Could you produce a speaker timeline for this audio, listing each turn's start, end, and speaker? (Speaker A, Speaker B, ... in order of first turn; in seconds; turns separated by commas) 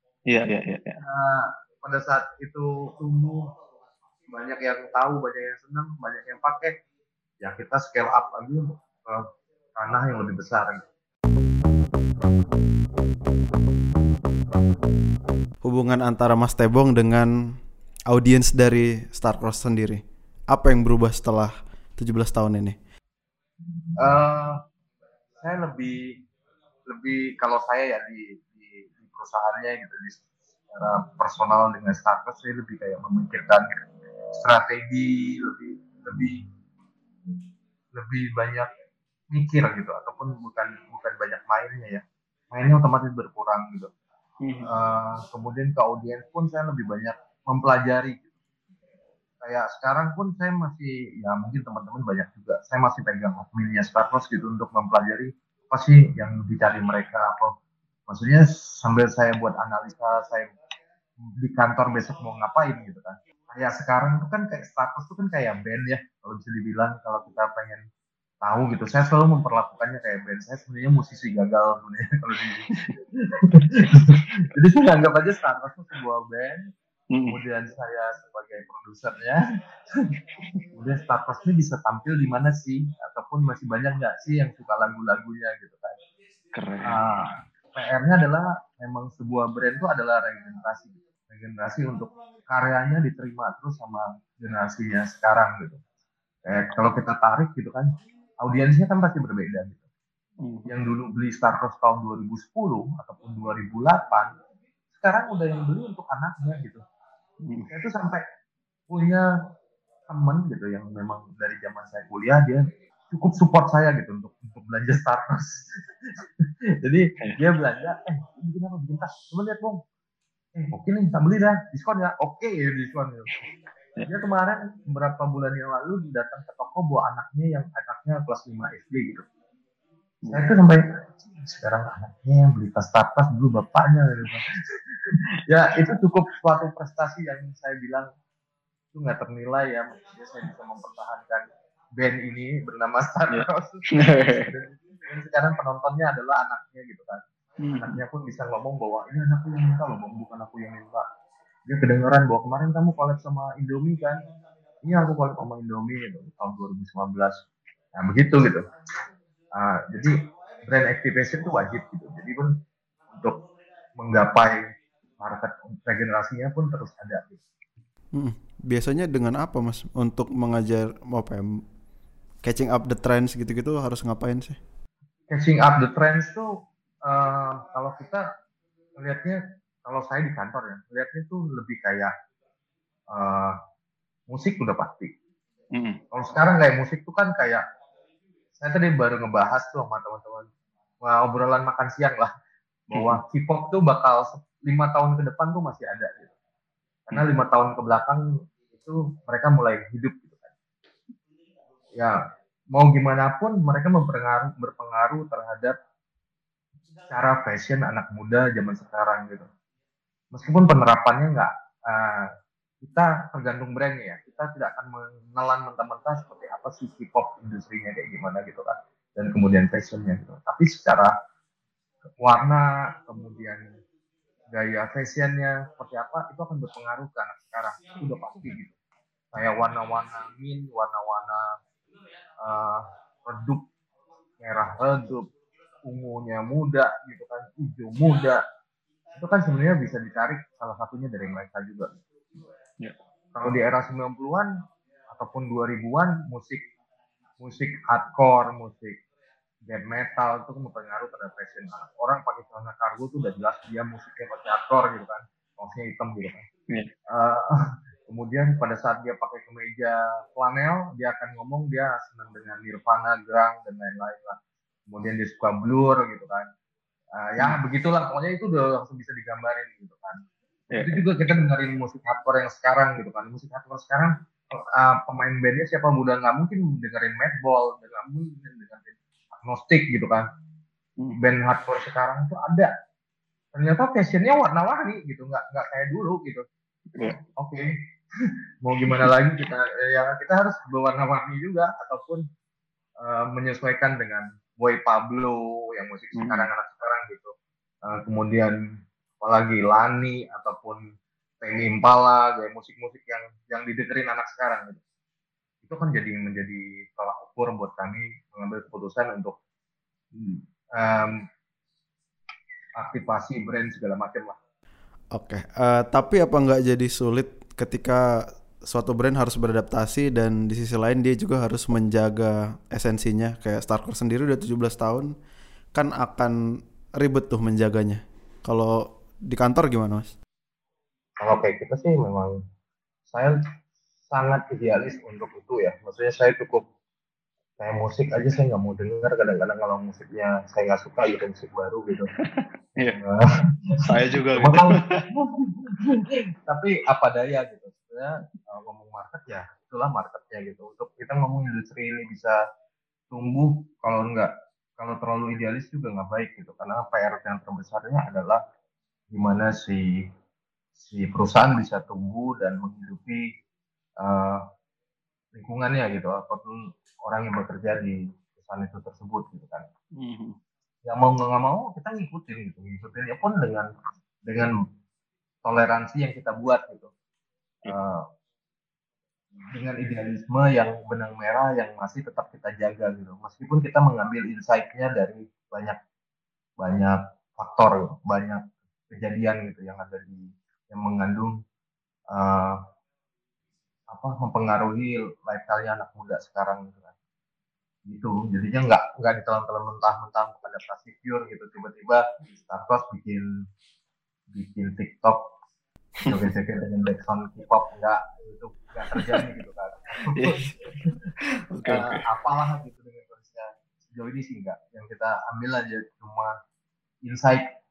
Speaker A: 0.3-1.0, Speaker B: 1.0-3.5, Speaker B: 4.3-6.8, Speaker B: 7.4-9.2, Speaker B: 9.8-10.8, Speaker C: 15.6-17.3, Speaker C: 18.1-22.8, Speaker B: 24.0-24.6, Speaker B: 25.4-26.2, Speaker B: 26.9-33.6, Speaker B: 34.3-36.5, Speaker B: 37.9-38.7, Speaker B: 39.3-43.9, Speaker A: 44.4-44.7, Speaker B: 44.6-48.3, Speaker B: 49.4-57.5, Speaker B: 58.1-60.5, Speaker B: 61.4-67.8, Speaker B: 68.4-76.7, Speaker A: 77.1-77.4, Speaker B: 77.3-79.4, Speaker B: 80.7-86.0, Speaker A: 86.5-87.0, Speaker B: 86.8-95.8, Speaker B: 96.4-99.8, Speaker A: 100.4-100.7, Speaker B: 100.7-104.3, Speaker B: 104.9-106.8, Speaker A: 107.4-107.7, Speaker B: 107.7-108.2, Speaker B: 108.9-109.3, Speaker B: 110.1-116.2, Speaker B: 116.8-119.8, Speaker B: 120.5-123.4, Speaker B: 124.0-129.2, Speaker B: 130.3-138.1, Speaker B: 138.9-147.2, Speaker A: 143.3-144.5, Speaker A: 147.6-148.0, Speaker B: 147.8-151.0, Speaker B: 151.7-154.2, Speaker B: 154.8-157.3, Speaker B: 157.9-158.7, Speaker B: 159.5-162.6, Speaker B: 163.1-163.4, Speaker B: 164.0-164.6, Speaker B: 165.2-167.4, Speaker C: 168.1-171.4, Speaker C: 172.4-174.6, Speaker B: 175.3-176.5, Speaker B: 177.0-178.2, Speaker B: 179.0-182.1, Speaker B: 183.1-183.5, Speaker B: 184.3-185.1, Speaker A: 185.7-186.0, Speaker B: 186.1-187.6, Speaker B: 188.6-190.5, Speaker B: 191.0-192.3, Speaker B: 192.9-196.3, Speaker A: 192.9-193.2, Speaker B: 197.1-200.5, Speaker B: 202.7-205.8, Speaker B: 207.1-209.5, Speaker B: 210.3-212.3, Speaker B: 212.8-221.1, Speaker B: 222.2-223.8, Speaker B: 224.5-228.7, Speaker B: 229.3-231.5, Speaker B: 232.4-233.7, Speaker B: 234.4-235.3, Speaker B: 235.8-238.4, Speaker B: 239.1-241.9, Speaker B: 243.3-244.5, Speaker B: 245.1-246.6, Speaker B: 247.4-249.0, Speaker B: 249.7-256.5, Speaker B: 257.1-266.5, Speaker B: 267.1-280.2, Speaker A: 270.7-271.0, Speaker B: 281.1-282.7, Speaker B: 283.5-286.4, Speaker B: 287.4-287.7, Speaker B: 288.6-292.2, Speaker B: 293.0-297.3, Speaker A: 296.1-296.5, Speaker B: 297.8-298.6, Speaker B: 299.2-300.8, Speaker B: 301.4-304.8, Speaker B: 305.6-309.4, Speaker B: 310.2-311.2, Speaker B: 312.8-314.4, Speaker C: 315.1-325.1, Speaker C: 325.7-326.4, Speaker C: 327.0-330.1, Speaker B: 331.2-332.4, Speaker B: 333.1-333.4, Speaker B: 334.1-336.6, Speaker B: 337.6-342.1, Speaker A: 342.3-343.0, Speaker B: 343.0-343.2, Speaker A: 343.9-345.0, Speaker B: 344.0-352.4, Speaker B: 353.1-358.4, Speaker B: 359.1-360.1, Speaker B: 360.8-363.3, Speaker B: 364.0-364.4, Speaker B: 365.3-369.6, Speaker A: 370.0-370.4, Speaker B: 370.9-373.7, Speaker B: 374.3-374.5, Speaker B: 375.4-376.9, Speaker B: 377.6-378.0, Speaker B: 379.5-385.8, Speaker B: 386.6-391.3, Speaker B: 392.1-392.6, Speaker B: 393.9-396.9, Speaker B: 397.9-403.3, Speaker B: 404.3-405.2, Speaker B: 406.0-410.9, Speaker A: 410.1-410.5, Speaker A: 411.5-412.1, Speaker B: 411.6-416.3, Speaker B: 417.0-417.5